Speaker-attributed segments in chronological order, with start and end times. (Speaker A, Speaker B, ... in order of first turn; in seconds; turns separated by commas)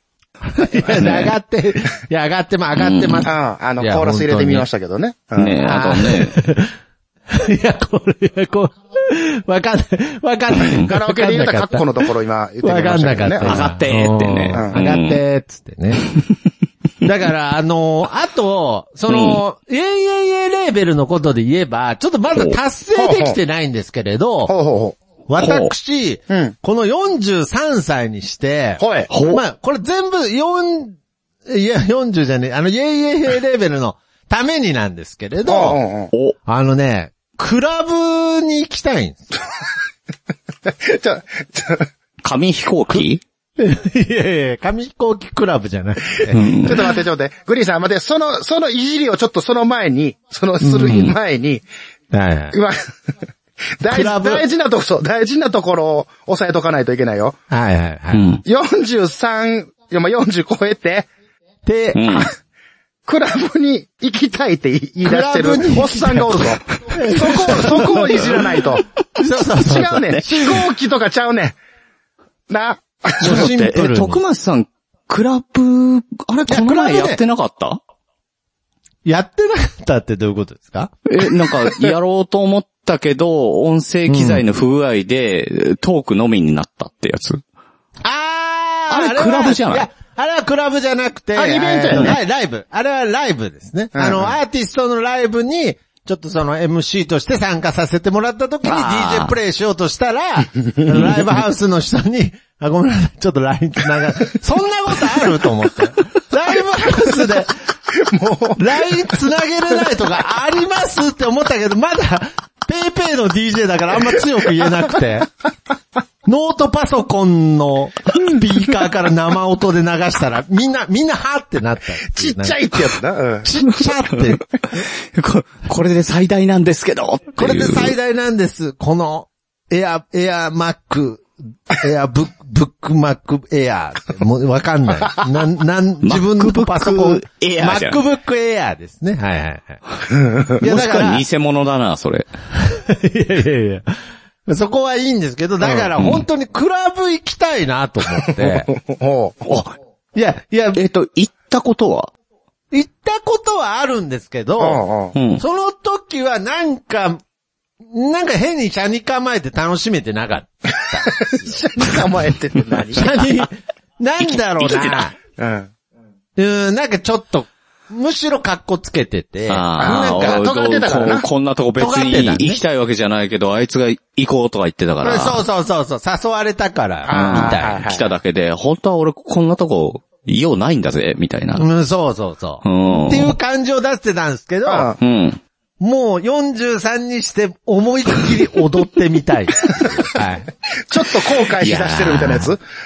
Speaker A: 0.4-4.7, Speaker B: 1.0-1.3, Speaker B: 2.8-3.3, Speaker C: 3.2-5.6, Speaker B: 5.4-6.3, Speaker A: 5.6-6.7, Speaker A: 7.3-12.1, Speaker B: 10.5-10.9, Speaker C: 10.8-13.6, Speaker A: 12.6-16.0, Speaker B: 13.4-15.2, Speaker C: 14.5-14.8, Speaker A: 17.0-24.5, Speaker B: 19.1-19.4, Speaker C: 22.9-23.4, Speaker C: 24.5-25.0, Speaker A: 25.3-35.8, Speaker B: 25.4-25.7, Speaker C: 26.3-26.5, Speaker C: 28.8-29.1, Speaker B: 29.1-29.4, Speaker C: 35.5-36.1, Speaker A: 36.5-39.3, Speaker C: 40.7-41.9, Speaker B: 42.2-43.2, Speaker A: 43.6-46.8, Speaker B: 46.3-46.8, Speaker C: 46.6-51.6, Speaker A: 50.6-51.1, Speaker A: 52.1-52.5, Speaker C: 52.5-52.8, Speaker C: 53.8-57.4, Speaker A: 53.9-54.4, Speaker A: 57.5-58.2, Speaker B: 58.1-58.4, Speaker C: 58.4-61.1, Speaker A: 61.6-62.2, Speaker B: 61.9-62.3, Speaker C: 63.1-68.8, Speaker A: 65.0-70.7, Speaker C: 69.6-71.5, Speaker C: 72.5-73.5, Speaker A: 73.2-74.2, Speaker B: 73.2-77.8, Speaker A: 76.5-77.2, Speaker A: 79.0-80.9, Speaker B: 81.0-87.4, Speaker A: 84.1-84.4, Speaker A: 88.0-107.6, Speaker B: 88.9-89.9, Speaker C: 91.3-92.1, Speaker C: 93.9-94.3, Speaker B: 98.6-99.3, Speaker C: 108.0-109.1, Speaker A: 108.6-115.3, Speaker A: 116.2-122.8, Speaker C: 122.2-123.5, Speaker A: 123.4-124.4, Speaker B: 124.1-127.9, Speaker A: 127.4-139.8, Speaker B: 136.0-138.0, Speaker C: 140.1-140.5, Speaker A: 140.6-141.2, Speaker B: 140.6-142.3, Speaker A: 142.5-143.9, Speaker A: 144.4-148.7, Speaker B: 146.0-146.2, Speaker C: 148.3-149.4, Speaker A: 150.1-150.8, Speaker B: 150.7-152.1, Speaker A: 152.7-154.8, Speaker C: 154.6-155.1, Speaker B: 155.1-155.4, Speaker A: 155.4-157.2, Speaker A: 157.8-162.1, Speaker C: 161.1-163.1, Speaker A: 162.9-165.2, Speaker B: 164.2-165.1, Speaker C: 165.4-165.7, Speaker A: 166.3-170.4, Speaker B: 169.5-175.4, Speaker C: 169.8-171.2, Speaker A: 171.8-172.6, Speaker A: 175.0-177.8, Speaker C: 177.1-178.1, Speaker B: 177.1-181.6, Speaker A: 181.6-184.9, Speaker B: 182.6-183.3, Speaker C: 184.7-185.0, Speaker B: 185.0-185.4, Speaker A: 185.8-190.5, Speaker C: 190.9-192.6, Speaker B: 191.6-192.5